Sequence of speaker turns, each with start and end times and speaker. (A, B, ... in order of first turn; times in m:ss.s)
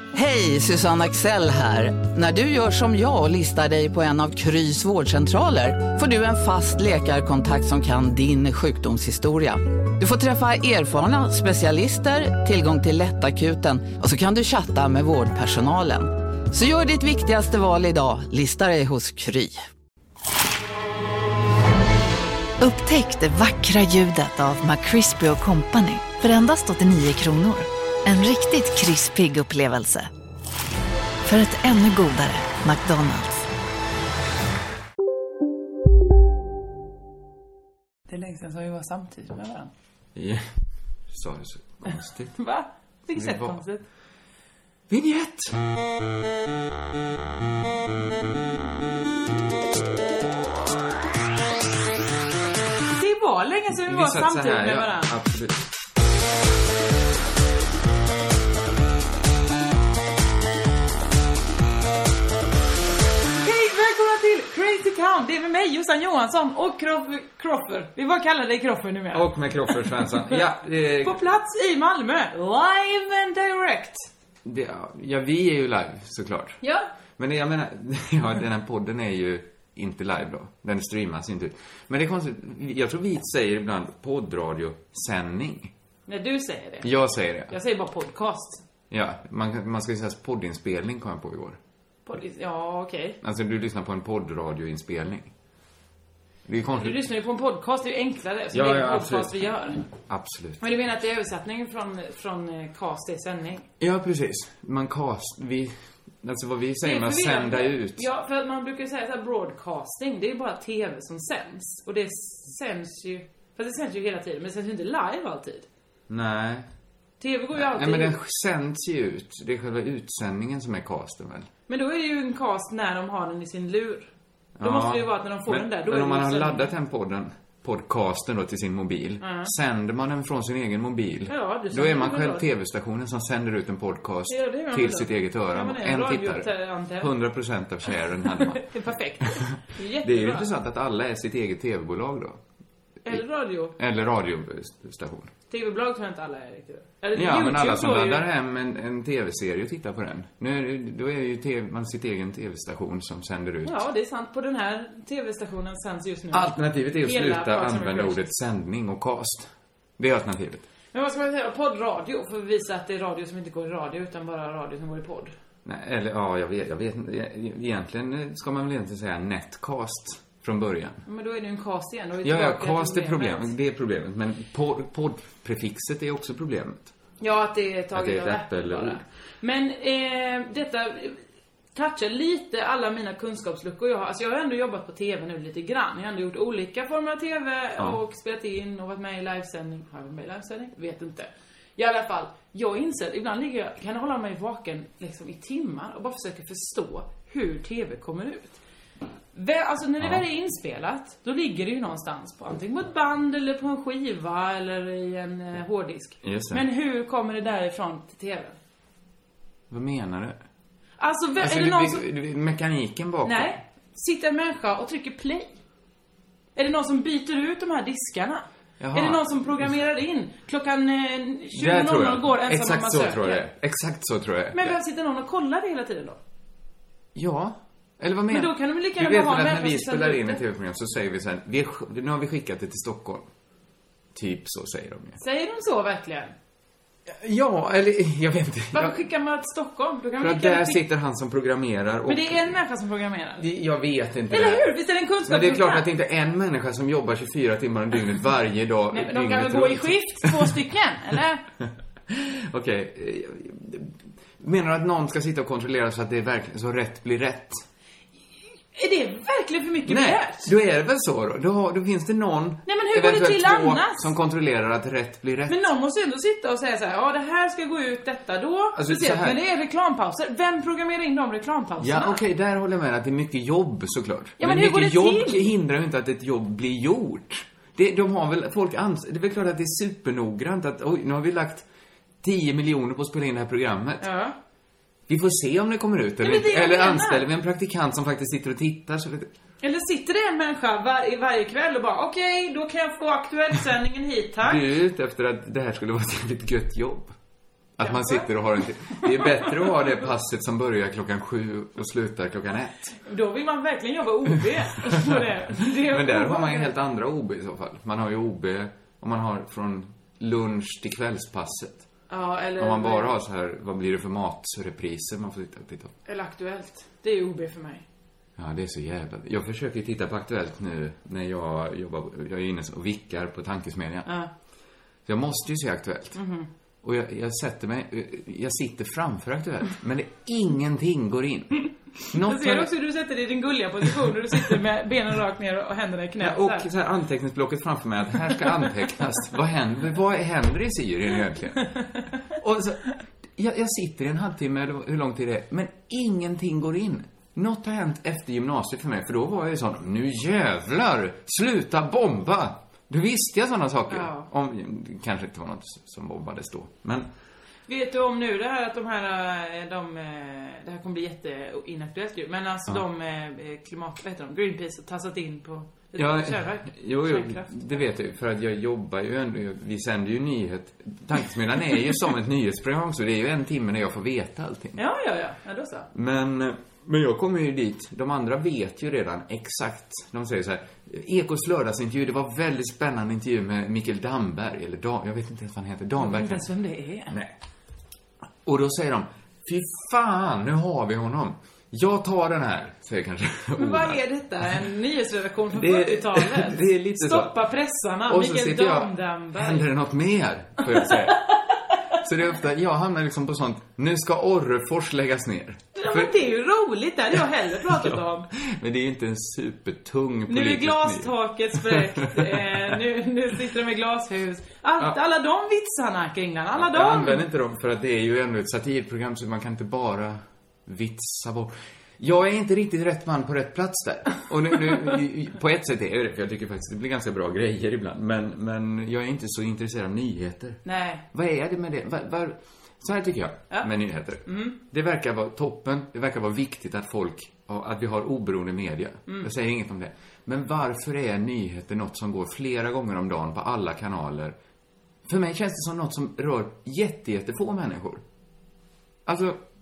0:00.1-0:19.6 A
0:22.6-0:30.1 B
0:31.3-0:33.4 B
0:38.1-0:39.7 C
0:40.1-0:40.5 D
0:41.1-0:42.4 D
0:42.4-0:43.8 C
0:43.1-0:43.6 D
0:44.9-0:45.6 D
0:52.9-0:55.1 C
0:53.7-0:55.6 D
1:03.4-1:10.4 C
1:09.1-1:11.2 D
1:11.0-1:14.1 C
1:14.4-1:16.6 D
1:16.6-1:16.9 C
1:17.2-1:25.7 D
1:26.1-1:26.9 C
1:26.8-1:27.5 D
1:27.5-1:28.6 C
1:28.9-1:31.6 D
1:32.0-1:33.2 C
1:33.2-1:35.3 D
1:36.4-1:37.0 D
1:36.8-1:39.9 C
1:38.5-1:39.4 D
1:40.1-1:40.6 D
1:40.6-1:43.6 C
1:43.8-1:48.1 D
1:46.8-1:55.6 C
1:56.1-1:56.7 D
1:57.2-1:58.2 C
1:57.5-2:01.5 D
2:01.7-2:04.1 C
2:04.6-2:18.6 D
2:04.6-2:06.7 C
2:09.2-2:09.5 C
2:11.3-2:12.4 C
2:14.3-2:17.1 C
2:18.4-2:20.5 C
2:19.4-2:22.4 D
2:23.0-2:23.7 C
2:23.8-2:25.3 D
2:25.5-2:28.2 C
2:27.1-2:33.8 D
2:33.6-2:38.3 C
2:36.3-2:40.6 D
2:40.9-2:45.3 C
2:45.6-2:51.0 D
2:51.0-2:53.5 C
2:52.2-2:56.9 D
2:57.2-3:01.2 C
2:57.9-2:59.0 D
3:01.7-3:18.6 C
3:19.3-3:28.5 C
3:26.2-3:26.6 D
3:29.7-3:30.4 D
3:31.0-3:32.0 C
3:31.4-3:33.6 D
3:33.2-3:35.5 C
3:36.6-3:43.4 C
3:38.8-3:39.3 D
3:41.5-3:44.8 D
3:44.5-3:46.2 C
3:47.1-3:53.3 D
3:48.3-3:50.4 C
3:54.1-3:55.2 D
3:55.2-3:56.3 C
3:57.0-3:59.0 D
3:58.7-4:00.8 C
4:00.2-4:02.6 D
4:02.1-4:03.4 C
4:03.4-4:04.7 D
4:04.3-4:05.9 C
4:05.2-4:10.6 D
4:08.9-4:11.4 C
4:12.1-4:17.6 D
4:18.7-4:20.5 C
4:19.9-4:25.7 D
4:22.6-4:24.1 C
4:25.5-4:32.2 C
4:28.7-4:29.4 D
4:31.8-4:41.6 D
4:34.4-4:35.4 C
4:42.2-4:44.0 D
4:44.0-4:44.3 C
4:45.1-4:49.3 D
4:46.2-4:47.3 C
4:49.6-4:54.6 C
4:54.4-4:57.1 D
4:57.8-5:03.0 D
4:57.8-4:58.3 C
4:58.9-4:59.8 C
5:03.0-5:06.7 C
5:04.4-5:11.8 D
5:12.1-5:13.2 C
5:12.6-5:15.9 D
5:16.0-5:17.8 C
5:18.4-5:24.1 D
5:25.0-5:26.2 D
5:26.1-5:26.5 C
5:26.8-5:32.7 D
5:32.2-5:36.7 C
5:36.2-5:42.8 D
5:41.6-5:41.9 C
5:43.3-5:57.1 D
5:53.9-5:54.3 C
5:57.7-6:07.6 C
6:06.0-6:14.8 D
6:14.8-6:15.9 C
6:15.9-6:26.5 D
6:26.0-6:27.1 C
6:27.1-6:27.3 D
6:28.4-6:34.0 D
6:33.6-6:39.7 C
6:35.5-6:37.3 D
6:38.1-6:41.3 D
6:40.7-6:41.3 C
6:42.0-6:46.1 D
6:45.7-6:48.3 C
6:47.2-6:52.7 D
6:50.3-6:57.2 C
6:56.5-7:10.6 D
7:10.6-7:11.0 C
7:11.1-7:24.3 D
7:14.2-7:14.6 C
7:25.1-7:28.0 D
7:29.0-7:29.4 D